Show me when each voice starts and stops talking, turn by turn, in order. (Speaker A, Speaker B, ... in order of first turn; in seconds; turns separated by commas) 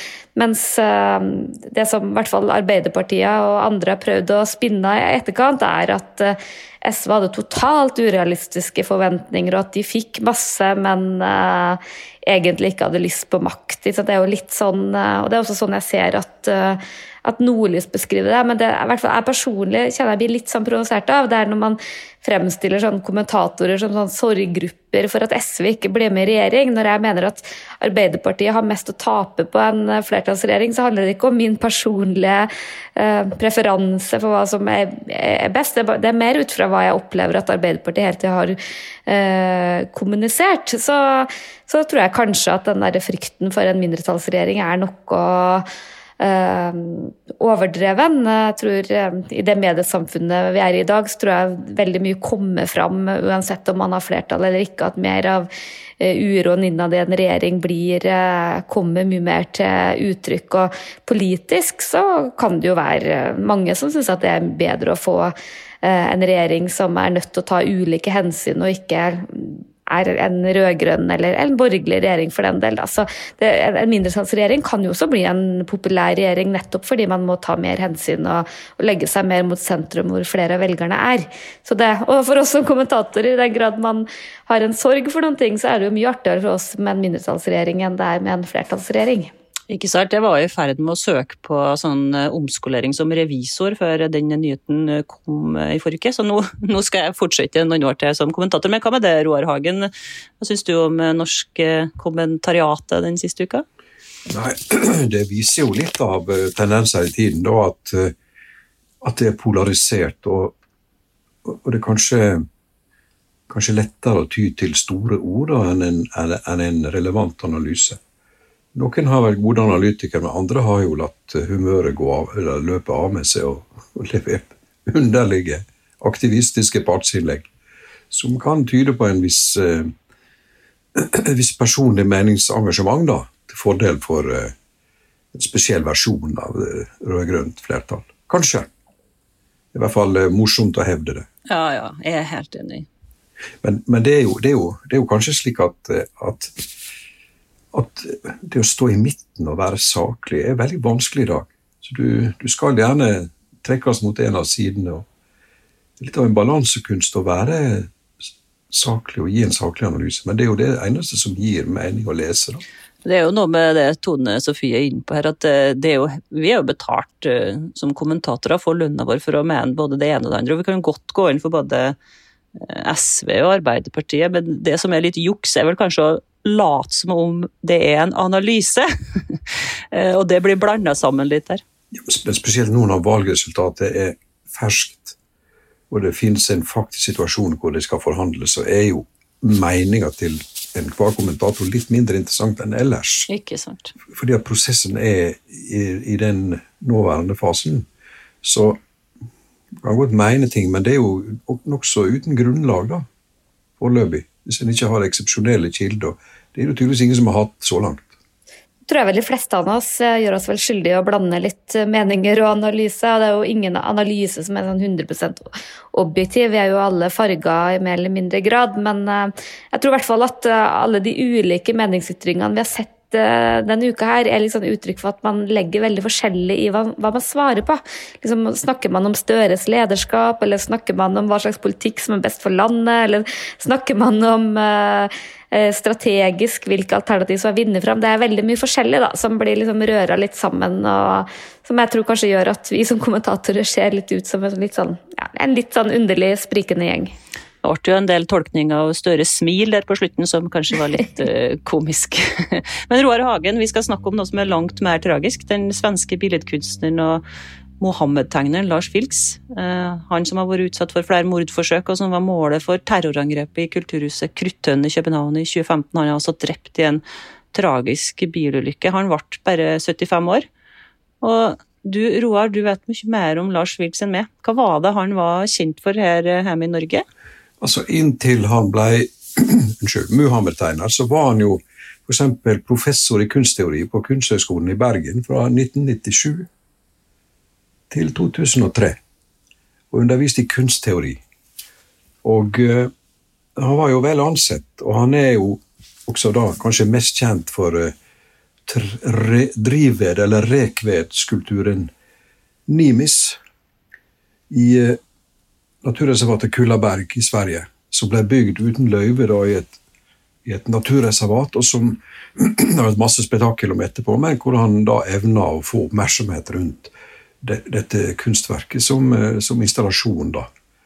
Speaker A: 0.3-45.6, Speaker A: 46.2-55.5, Speaker A: 56.0-89.3, Speaker B: 89.7-103.6, Speaker C: 104.3-108.2, Speaker C: 109.0-110.6, Speaker C: 111.5-112.5, Speaker C: 113.5-118.0, Speaker C: 118.8-127.5, Speaker C: 128.1-129.9, Speaker C: 130.9-134.5, Speaker C: 135.3-138.7, Speaker C: 139.7-141.3, Speaker B: 141.5-142.9, Speaker C: 143.6-146.5, Speaker C: 147.7-155.1, Speaker C: 156.0-157.9, Speaker C: 158.7-162.6, Speaker B: 163.0-172.0, Speaker B: 172.6-181.6, Speaker C: 181.9-185.2, Speaker C: 185.9-193.3, Speaker B: 193.3-193.9, Speaker C: 194.1-197.9, Speaker C: 198.4-198.8, Speaker C: 199.8-203.0, Speaker C: 203.8-208.1, Speaker A: 208.9-247.1, Speaker B: 247.6-257.2, Speaker B: 257.8-270.4, Speaker B: 271.2-277.1, Speaker C: 277.6-286.5, Speaker C: 287.9-289.0, Speaker C: 289.9-291.2, Speaker C: 292.2-292.9, Speaker C: 293.6-297.9, Speaker C: 298.7-301.9, Speaker C: 302.7-303.4, Speaker C: 304.5-305.0, Speaker C: 305.8-309.8, Speaker C: 310.4-320.5